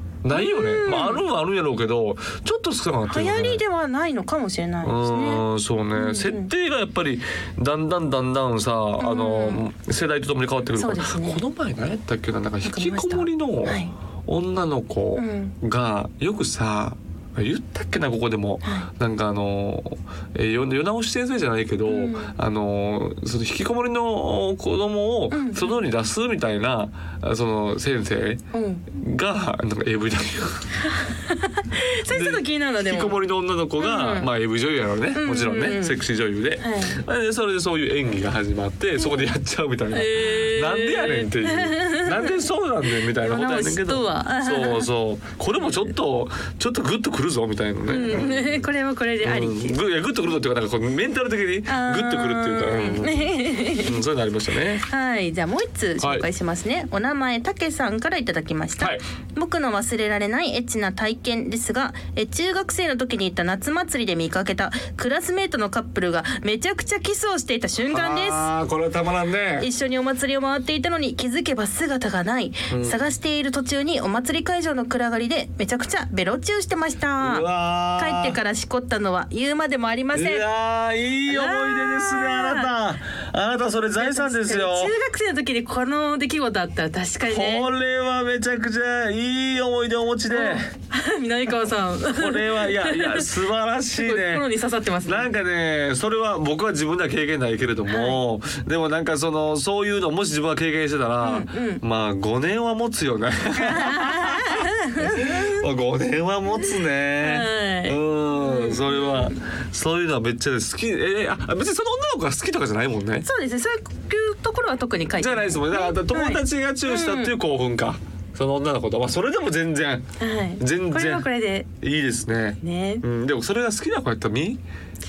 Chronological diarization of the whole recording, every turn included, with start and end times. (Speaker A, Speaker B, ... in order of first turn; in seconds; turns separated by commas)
Speaker A: 0.2-3.6, Speaker B: 0.3-1.2, Speaker B: 3.1-5.4, Speaker A: 4.8-28.4, Speaker B: 5.9-6.5, Speaker B: 9.0-9.6, Speaker B: 10.8-11.4, Speaker B: 12.6-13.9, Speaker B: 15.2-15.5, Speaker B: 21.9-22.3, Speaker B: 25.3-25.8, Speaker B: 28.5-28.9, Speaker A: 28.9-30.7, Speaker B: 30.8-33.2, Speaker A: 32.1-48.6, Speaker B: 33.8-34.3, Speaker B: 35.1-36.0, Speaker B: 36.6-37.0, Speaker B: 39.0-39.3, Speaker B: 39.9-42.4, Speaker B: 43.0-44.9, Speaker B: 47.9-49.8, Speaker A: 49.2-54.8, Speaker B: 51.6-54.0, Speaker B: 54.9-68.5, Speaker A: 56.0-56.2, Speaker A: 67.9-69.7, Speaker B: 69.6-80.4, Speaker A: 72.7-73.0, Speaker A: 77.2-78.4, Speaker A: 80.1-85.0, Speaker B: 81.2-82.7, Speaker B: 83.9-87.7, Speaker A: 87.2-90.7, Speaker B: 90.3-93.3, Speaker A: 92.1-94.5, Speaker B: 93.9-95.3, Speaker A: 95.0-113.3, Speaker B: 97.9-98.2, Speaker B: 101.2-101.8, Speaker B: 103.5-105.6, Speaker B: 107.2-109.4, Speaker B: 113.2-117.3, Speaker A: 115.2-120.0, Speaker B: 120.2-121.7, Speaker A: 120.6-124.6, Speaker B: 122.6-123.0